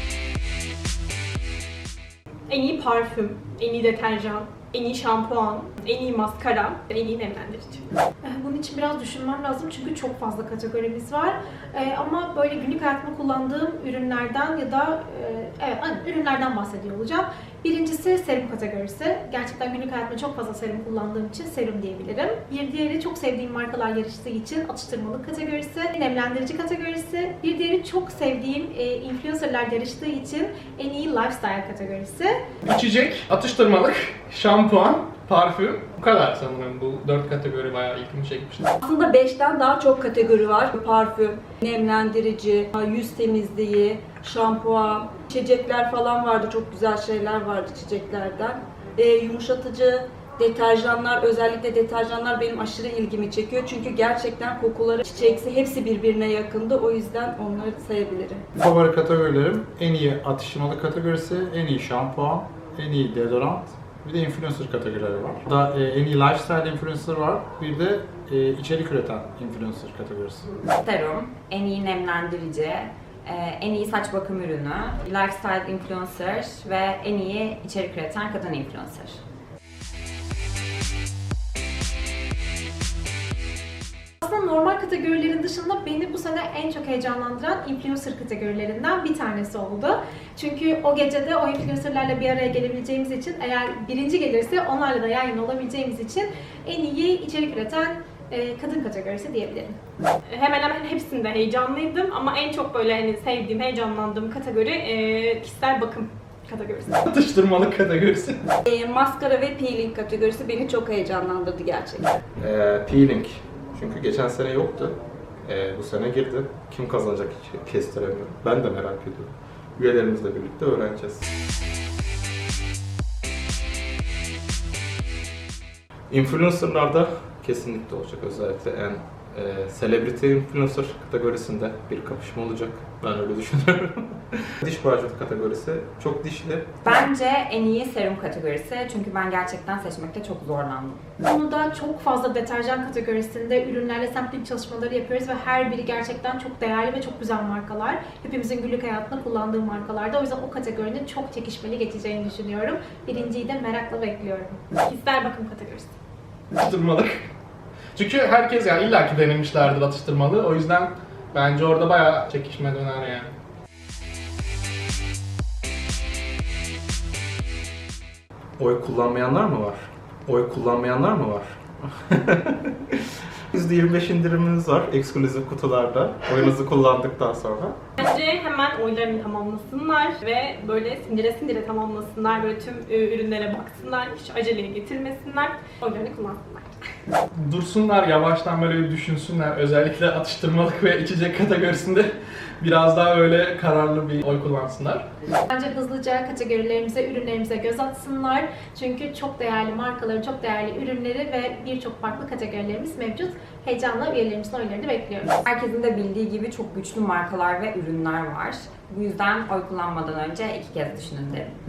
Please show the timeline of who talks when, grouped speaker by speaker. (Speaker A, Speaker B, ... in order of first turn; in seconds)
Speaker A: 2.5-7.9, 100.3-107.0, 154.8-155.9, 178.0-186.8
Speaker B: 8.2-32.4, 84.2-99.8, 141.2-154.6, 195.5-205.4
Speaker C: 32.7-38.7, 107.1-108.5, 156.6-157.3, 158.0-163.3, 187.4-195.0
Speaker D: 38.8-58.4, 108.7-112.2
Speaker E: 58.6-70.5
Speaker F: 70.8-79.2, 136.8-141.0, 205.5-211.5
Speaker G: 112.4-121.2, 126.1-136.7, 168.6-177.8